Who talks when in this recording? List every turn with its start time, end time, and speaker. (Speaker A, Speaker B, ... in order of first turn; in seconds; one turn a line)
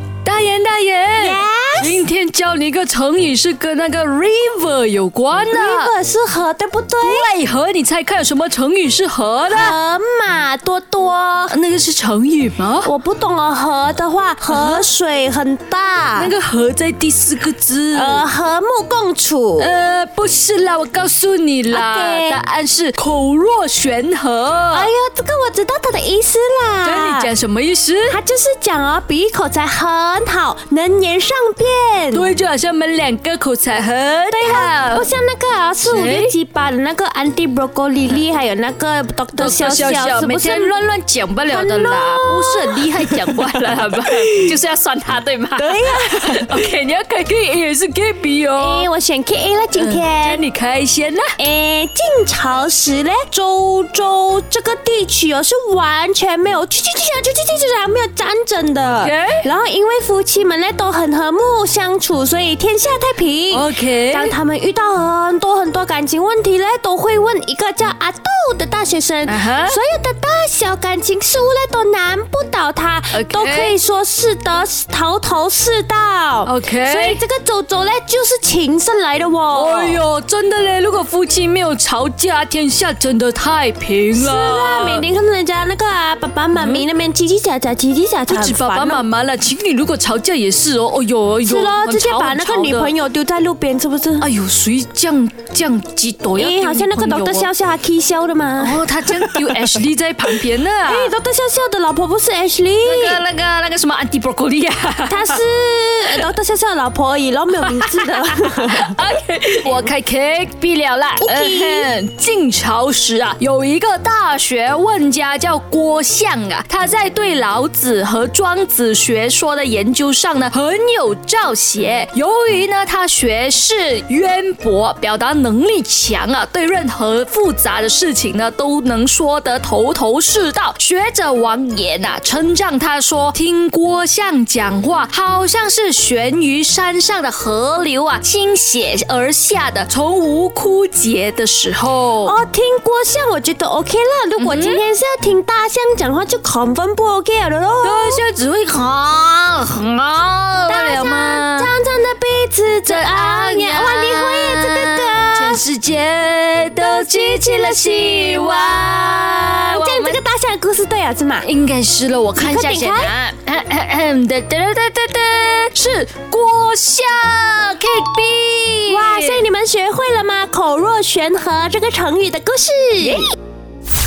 Speaker A: 0.2-5.9
Speaker B: 1.2-2.0
Speaker B: 5.5-7.3
Speaker A: 7.0-9.8
Speaker B: 9.5-11.6
Speaker A: 11.5-12.9
Speaker B: 12.8-16.3
Speaker A: 14.4-14.9
Speaker A: 16.1-18.3
Speaker B: 17.9-19.7
Speaker A: 19.6-24.9
Speaker B: 21.7-22.4
Speaker B: 24.7-27.3
Speaker A: 26.8-28.2
Speaker B: 28.1-32.3
Speaker A: 32.1-35.1
Speaker B: 34.3-40.8
Speaker A: 35.8-36.3
Speaker A: 39.4-48.9
Speaker B: 41.5-42.9
Speaker B: 45.6-46.5
Speaker B: 48.6-50.4
Speaker A: 49.8-51.4
Speaker B: 51.4-80.0
Speaker A: 59.0-59.5
Speaker A: 63.5-64.4
Speaker A: 69.2-69.8
Speaker A: 73.1-73.8
Speaker A: 76.5-77.2
Speaker A: 79.5-85.1
Speaker B: 84.1-89.0
Speaker A: 86.5-86.8
Speaker A: 88.3-92.9
Speaker B: 91.4-94.3
Speaker A: 94.2-97.5
Speaker B: 96.3-99.5
Speaker A: 98.6-101.1
Speaker B: 100.8-103.2
Speaker A: 102.8-105.4
Speaker B: 105.1-109.0
Speaker A: 107.6-142.4
Speaker B: 111.2-111.9
Speaker B: 142.2-148.2
Speaker A: 144.4-144.8
Speaker A: 147.8-151.7
Speaker B: 150.7-155.6
Speaker A: 152.9-160.2
Speaker B: 157.2-161.5
Speaker A: 161.4-169.5
Speaker B: 162.4-163.1
Speaker B: 168.9-173.3
Speaker A: 173.0-173.3